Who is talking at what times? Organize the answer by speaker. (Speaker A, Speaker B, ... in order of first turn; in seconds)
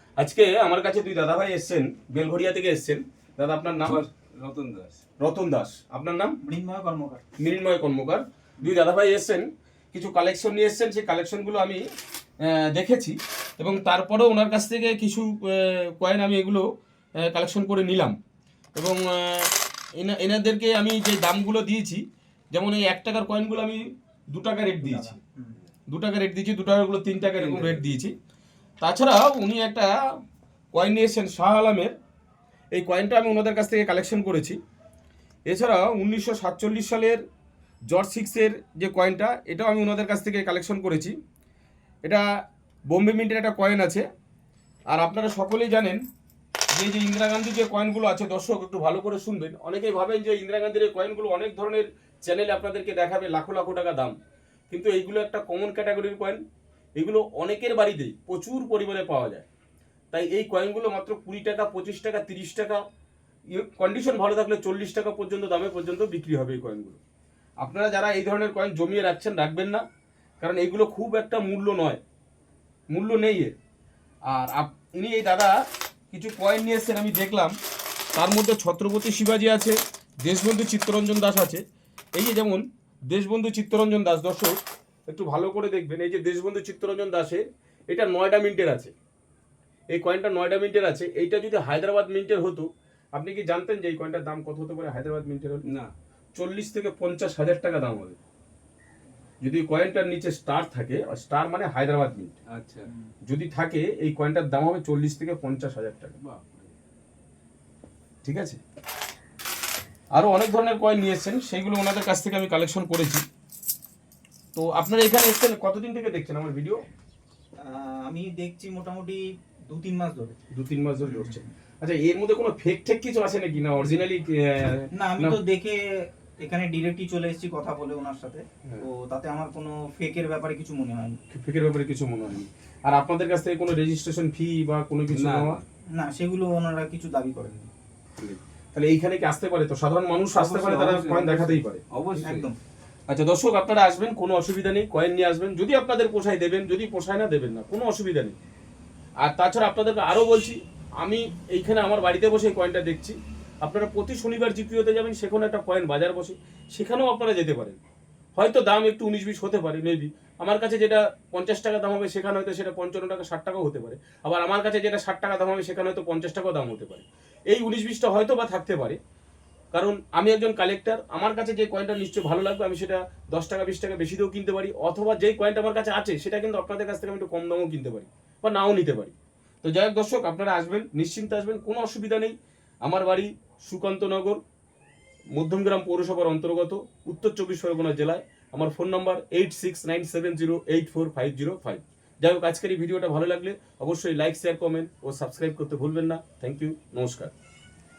Speaker A: 0.2-4.0, 5.2-6.3, 7.4-11.8, 12.4-16.7, 17.2-18.2, 18.8-25.1, 25.9-28.1, 28.8-29.9, 30.7-31.9, 32.7-34.6, 35.5-37.2, 37.9-41.1, 42.9-44.1, 44.9-46.0, 46.7-54.1, 54.7-56.4, 57.0-59.5, 60.1-62.8, 63.5-67.0, 67.6-69.8, 70.4-72.0, 72.9-73.5, 74.3-75.5, 76.1-77.5, 78.2-81.6, 82.2-84.6, 85.1-88.9, 89.9-95.7, 96.3-98.2, 99.4-102.4, 103.3-106.2, 108.2-108.6, 110.1-113.2, 114.5-116.8, 120.5-125.4, 131.3-135.6, 138.7-141.8, 143.1-148.4, 149.2-157.8, 158.4-169.0, 169.7-184.4, 185.3-197.3
Speaker B: 3.8-5.0, 27.4-27.8, 95.7-95.9, 102.5-102.9, 106.2-106.7, 135.1-135.6, 140.3-142.5
Speaker C: 6.4-7.2, 24.8-25.6, 117.6-120.4, 121.0-121.4, 124.9-131.2, 135.9-137.7, 142.2-142.6